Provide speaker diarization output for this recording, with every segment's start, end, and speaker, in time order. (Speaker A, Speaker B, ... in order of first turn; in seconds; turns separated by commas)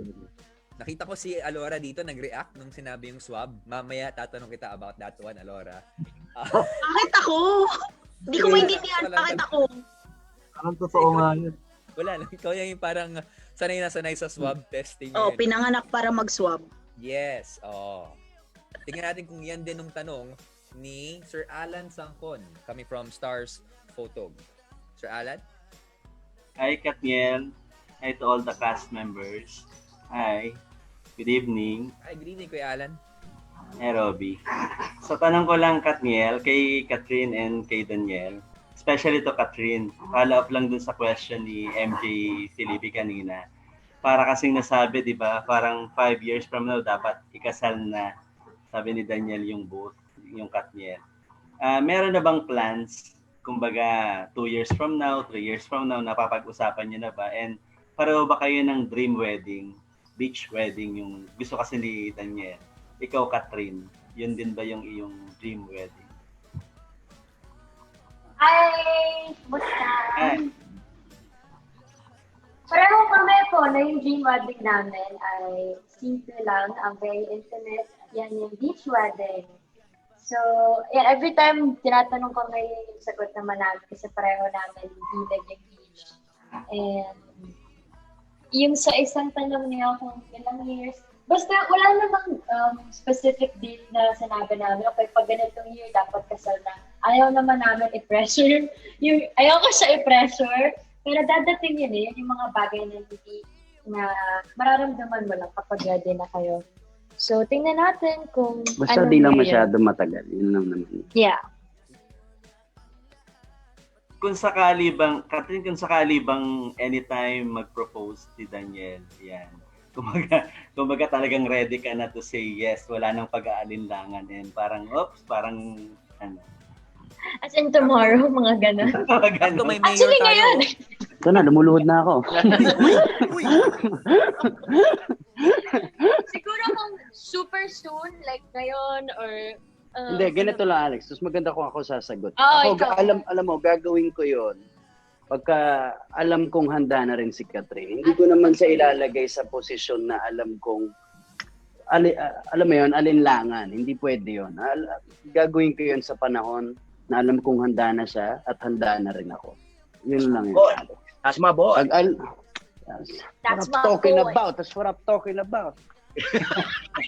Speaker A: 0.8-5.8, Speaker A: 6.3-6.8, Speaker B: 6.8-7.7, Speaker B: 8.3-9.8, Speaker A: 8.3-9.5, Speaker C: 10.7-11.5, Speaker A: 10.9-11.4, Speaker A: 11.9-15.5, Speaker B: 15.1-16.7, Speaker A: 17.0-18.2, Speaker A: 18.9-24.4, Speaker A: 25.0-25.4, Speaker D: 26.6-27.4, Speaker D: 28.0-30.5, Speaker D: 31.2-31.9, Speaker A: 32.0-33.0, Speaker D: 33.8-34.4, Speaker D: 35.0-43.4, Speaker D: 44.0-48.1, Speaker D: 48.7-51.0, Speaker D: 51.6-66.0, Speaker E: 68.4-70.5, Speaker D: 70.2-70.5, Speaker E: 72.7-79.5, Speaker E: 80.2-86.1, Speaker E: 86.7-87.5, Speaker E: 88.5-106.6, Speaker E: 107.2-109.7, Speaker F: 108.8-111.0, Speaker E: 111.2-111.4, Speaker D: 114.2-125.6, Speaker E: 127.4-129.0, Speaker D: 129.0-129.8, Speaker A: 129.4-130.6, Speaker E: 129.8-130.8, Speaker F: 131.2-136.1, Speaker C: 132.5-132.9, Speaker E: 136.3-140.7, Speaker F: 140.1-144.6, Speaker E: 142.4-143.2, Speaker F: 145.3-145.6, Speaker F: 146.2-150.9, Speaker E: 148.0-149.0, Speaker F: 151.9-161.0, Speaker C: 160.5-161.8, Speaker F: 161.8-162.1, Speaker F: 162.9-165.7, Speaker E: 163.4-164.4